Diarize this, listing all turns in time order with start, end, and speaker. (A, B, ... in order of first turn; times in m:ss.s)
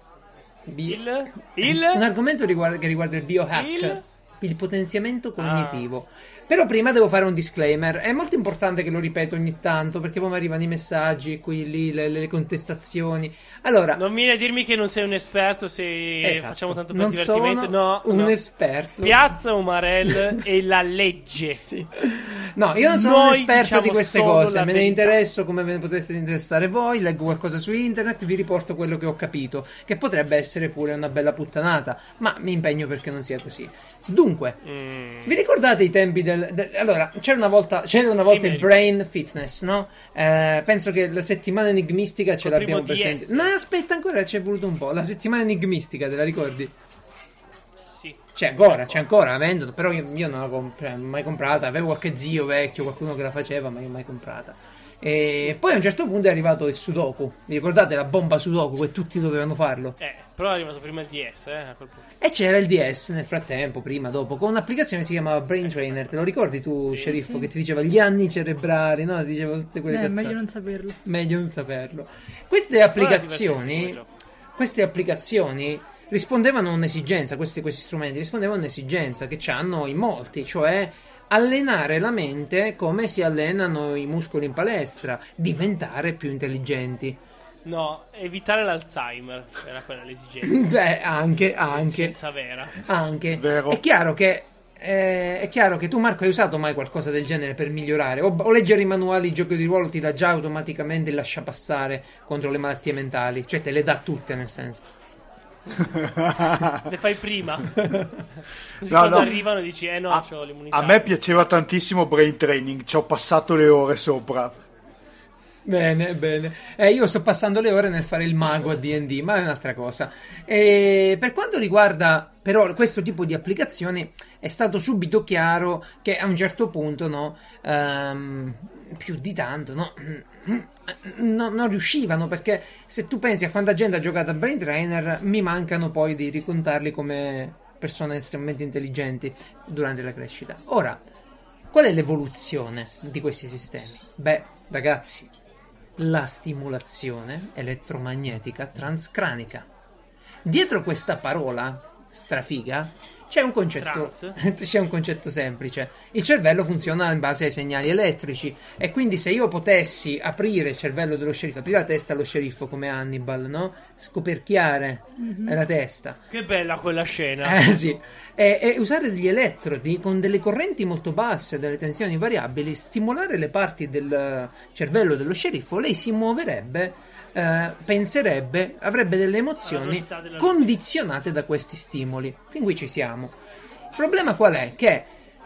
0:00.6-0:01.0 A
0:00.8-0:02.0 B
0:01.6-0:14.0 A
0:03.5-0:04.0 B
0:05.4-0:05.8 B
0:13.9-0:18.4 B
0:16.2-0:19.3 A
0:19.0-0:21.6 B
0:20.1-0:20.4 A
0:21.6-0:34.6 A
0:22.8-0:25.2 B
0:34.6-0:35.4 B
0:35.2-0:46.7 A
0:38.2-0:38.8 B
0:42.4-0:43.5 B
0:47.9-0:49.1 B
0:48.3-1:00.0 A
1:00.0-1:02.1 B
1:02.2-1:10.4 A
1:06.8-1:07.1 B
1:07.0-1:07.5 C
1:09.9-1:11.0 C
1:11.0-1:14.0 A
1:12.9-1:14.1 B
1:14.6-1:27.2 A
1:27.6-1:30.7 B
1:30.4-1:32.2 A
1:31.7-1:32.8 B
1:32.7-1:44.8 A
1:33.4-1:33.8 D
1:45.9-1:46.8 D
1:46.8-1:47.9 B
1:47.8-1:48.2 A
1:48.8-1:51.5 B
1:48.9-1:49.4 D
1:50.1-1:54.6 D
1:55.6-2:21.0 A
2:21.7-2:25.3 A
2:26.0-2:29.7 A
2:30.4-2:46.2 A
2:33.8-2:34.4 B
2:45.2-2:45.6 C
2:46.3-2:47.9 B
2:47.4-3:03.4 A
2:59.6-3:00.7 B
3:03.9-3:05.1 A